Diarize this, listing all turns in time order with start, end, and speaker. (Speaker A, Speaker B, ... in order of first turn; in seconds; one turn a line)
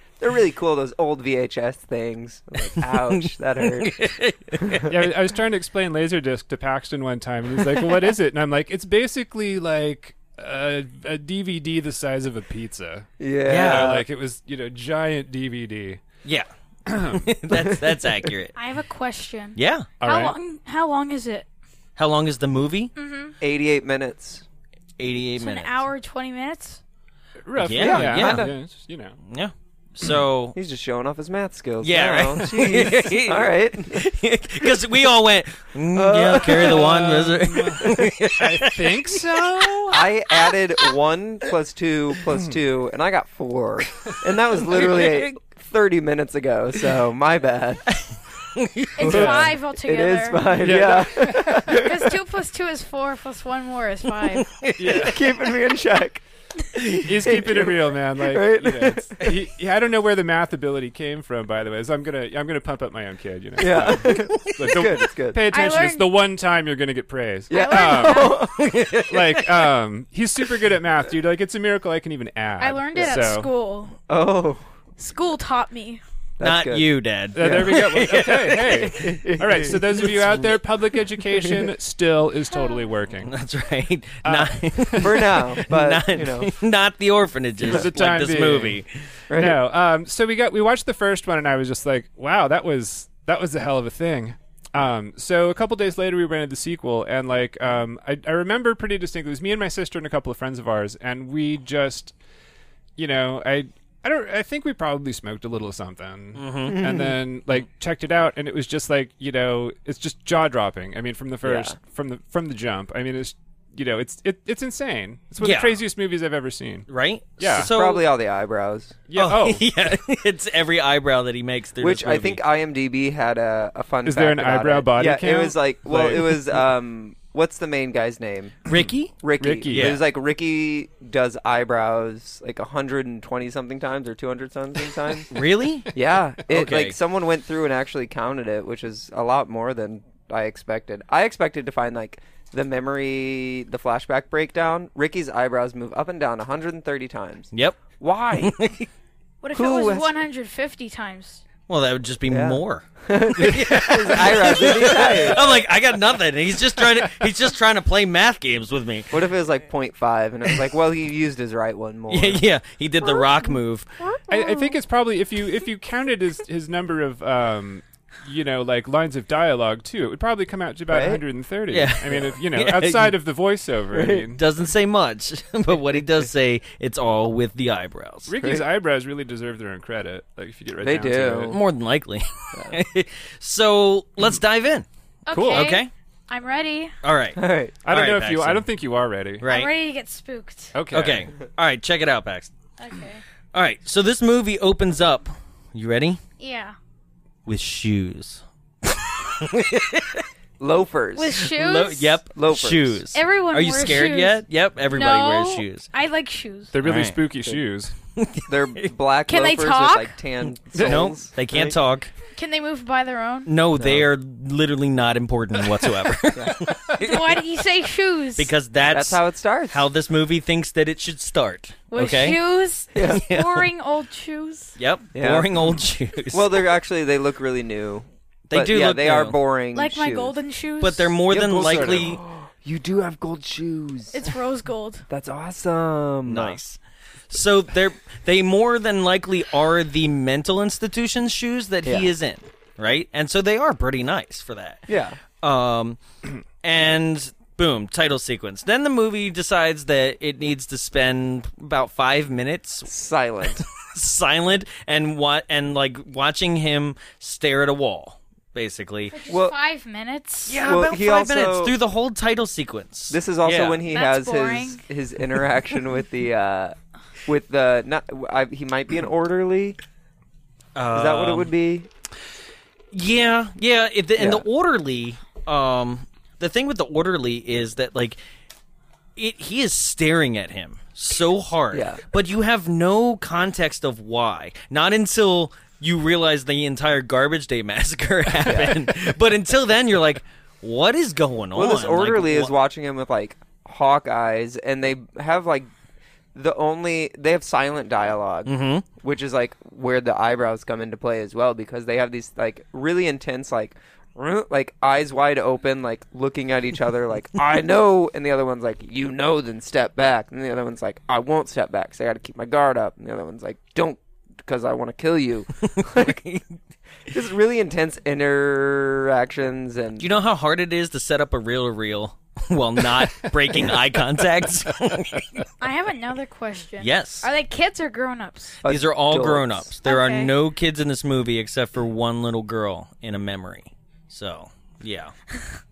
Speaker A: 0.2-4.1
Speaker B: 2.8-4.8
Speaker A: 4.6-5.0
Speaker C: 4.9-16.0
Speaker A: 13.2-14.0
Speaker B: 13.5-14.0
Speaker C: 16.9-17.3
Speaker B: 17.1-18.6
Speaker A: 17.6-17.8
Speaker D: 18.6-21.5
Speaker B: 19.6-19.9
Speaker C: 20.0-20.4
Speaker B: 22.0-22.9
Speaker D: 23.0-23.4
Speaker A: 23.4-24.4
Speaker B: 25.0-25.9
Speaker D: 25.4-26.8
Speaker C: 27.4-29.2
Speaker B: 27.6-28.5
Speaker A: 27.7-28.5
Speaker B: 29.3-30.6
Speaker A: 30.6-34.0
Speaker B: 31.8-39.8
Speaker A: 35.9-37.0
Speaker C: 36.5-40.0
Speaker A: 39.9-48.0
Speaker C: 42.3-42.6
Speaker B: 44.7-45.3
Speaker B: 48.5-49.0
Speaker D: 49.0-50.7
Speaker A: 49.0-52.1
Speaker C: 49.0-49.6
Speaker C: 50.6-51.8
Speaker D: 51.7-54.5
Speaker B: 54.3-55.1
Speaker C: 54.8-55.3
Speaker A: 54.9-56.2
Speaker A: 56.8-59.4
Speaker C: 57.0-68.5
Speaker A: 63.6-65.4
Speaker B: 64.0-64.5
Speaker D: 65.5-66.2
Speaker A: 67.5-68.7
Speaker D: 67.5-68.5
Speaker B: 68.4-69.5
Speaker C: 69.1-73.5
Speaker D: 72.6-74.0
Speaker A: 74.1-74.6
Speaker D: 75.0-76.0
Speaker A: 76.4-77.8
Speaker B: 76.4-79.0
Speaker C: 77.3-83.3
Speaker A: 78.8-80.5
Speaker A: 81.3-81.7
Speaker B: 83.2-88.9
Speaker C: 84.2-85.5
Speaker A: 85.0-86.6
Speaker C: 87.6-102.2
Speaker A: 89.3-89.6
Speaker C: 103.0-116.9
Speaker B: 106.3-106.8
Speaker A: 106.7-107.2
Speaker A: 111.5-111.8
Speaker B: 115.4-115.8
Speaker B: 116.9-118.1
Speaker C: 117.4-117.7
Speaker A: 117.5-119.0
Speaker C: 119.1-119.7
Speaker B: 119.2-122.4
Speaker A: 121.8-128.6
Speaker C: 124.0-126.7
Speaker B: 128.7-130.0
Speaker C: 128.7-130.0
Speaker A: 129.2-135.3
Speaker B: 135.3-135.9
Speaker A: 135.9-148.6
Speaker B: 136.5-137.0
Speaker B: 147.5-148.9
Speaker D: 149.4-151.4
Speaker A: 149.5-150.1
Speaker B: 151.7-159.1
Speaker A: 152.3-155.4
Speaker A: 159.1-162.4
Speaker B: 162.1-163.9
Speaker A: 164.0-164.7
Speaker C: 164.3-174.4
Speaker A: 170.9-171.2
Speaker B: 171.7-173.2
Speaker A: 173.9-174.3
Speaker B: 174.3-178.3
Speaker C: 178.3-181.6
Speaker A: 178.4-178.7
Speaker A: 180.8-181.6
Speaker B: 181.5-184.9
Speaker D: 185.3-186.9
Speaker C: 185.3-185.7
Speaker B: 185.5-185.9
Speaker B: 187.0-188.7
Speaker A: 187.4-187.8
Speaker C: 187.8-189.5
Speaker B: 189.4-189.7
Speaker D: 189.4-190.7
Speaker C: 190.7-191.3
Speaker B: 190.9-192.5
Speaker D: 192.8-193.2
Speaker B: 193.5-196.2
Speaker D: 196.4-196.8
Speaker B: 197.5-200.3
Speaker A: 200.6-201.4
Speaker D: 201.2-202.2
Speaker B: 201.4-205.9
Speaker A: 202.3-203.0
Speaker D: 203.1-206.7
Speaker C: 206.7-207.9
Speaker B: 206.8-207.2
Speaker B: 208.2-208.9
Speaker A: 208.5-211.8
Speaker D: 209.3-210.2
Speaker C: 210.7-211.0
Speaker B: 210.7-212.1
Speaker D: 212.3-213.5
Speaker B: 213.5-217.4
Speaker A: 213.8-214.1
Speaker A: 216.3-216.7
Speaker D: 217.0-218.5
Speaker B: 218.4-222.4
Speaker A: 218.8-219.9
Speaker D: 221.9-224.8
Speaker A: 222.9-223.2
Speaker B: 223.0-223.7
Speaker B: 224.8-226.6
Speaker A: 225.1-225.7
Speaker A: 226.3-230.4
Speaker B: 228.5-229.4
Speaker D: 229.7-231.2
Speaker B: 230.8-232.2
Speaker A: 231.3-234.2
Speaker D: 234.1-235.1
Speaker A: 235.1-236.6
Speaker B: 236.3-244.9
Speaker A: 241.8-242.1
Speaker A: 244.9-245.2
Speaker B: 245.4-246.0
Speaker B: 246.6-252.9
Speaker A: 252.9-253.7
Speaker B: 253.6-259.1
Speaker D: 259.1-260.6
Speaker A: 259.3-259.6
Speaker B: 260.5-263.8
Speaker A: 260.6-261.8
Speaker A: 263.1-269.8
Speaker D: 263.9-264.8
Speaker B: 270.8-271.5
Speaker A: 270.9-271.9
Speaker B: 272.9-278.2
Speaker A: 274.2-274.4
Speaker B: 279.2-292.5
Speaker A: 281.7-282.0
Speaker A: 288.4-288.8
Speaker A: 291.5-295.7
Speaker A: 296.4-316.2
Speaker B: 298.5-298.9
Speaker B: 315.7-316.5
Speaker A: 317.1-320.1
Speaker B: 320.0-325.5
Speaker D: 325.6-328.6
Speaker B: 326.8-327.3
Speaker A: 328.6-329.7
Speaker B: 328.6-335.1
Speaker D: 329.9-330.3